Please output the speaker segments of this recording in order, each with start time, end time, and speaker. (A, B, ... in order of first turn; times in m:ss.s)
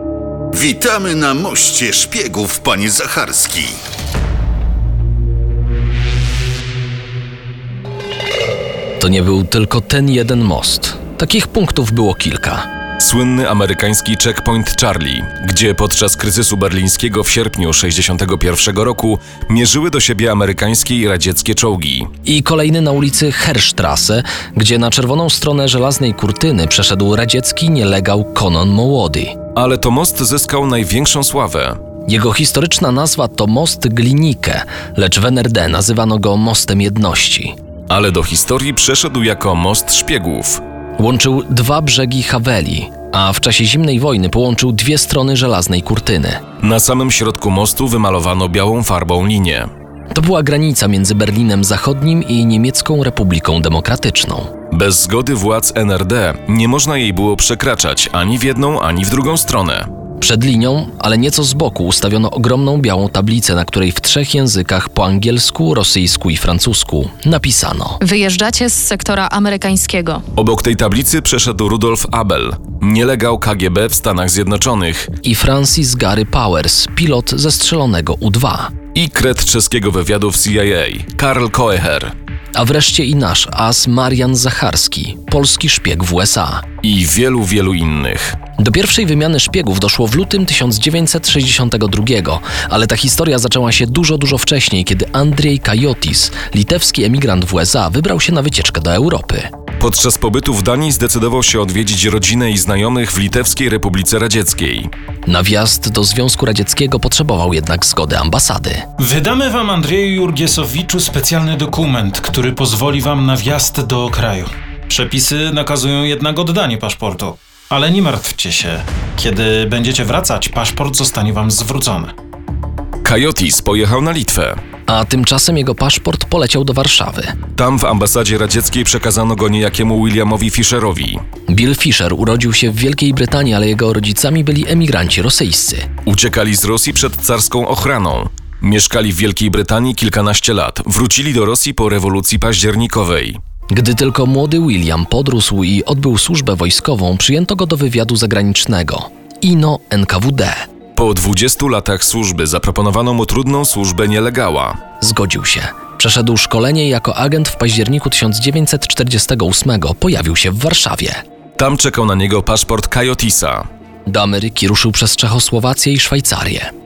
0:00.5-0:03.8 A
0:09.0-0:12.7 B
0:13.0-0:22.1 C
0:22.2-0:29.4 B
0:29.5-0:31.8 C
0:32.1-0:37.5 B
0:37.9-0:40.6 C
0:41.0-0:46.4 B
0:46.6-0:49.7 C
0:50.1-0:54.5 B
0:54.7-0:59.9 C
1:00.2-1:08.0 B
1:08.0-1:10.2 D
1:10.4-1:15.1 C
1:15.2-1:18.7 B
1:18.9-1:22.1 C
1:22.5-1:26.6 B
1:26.8-1:28.4 C
1:28.6-1:39.5 B
1:39.8-1:44.9 C
1:45.3-1:48.8 B
1:49.0-2:02.1 E
2:03.0-2:04.6 C
2:04.9-2:07.4 B
2:07.6-2:11.2 C
2:11.5-2:15.9 B
2:16.0-2:23.4 C
2:23.7-2:30.6 B
2:31.0-2:34.8 C
2:35.0-2:41.2 B
2:41.6-2:43.6 C
2:44.1-2:46.7 B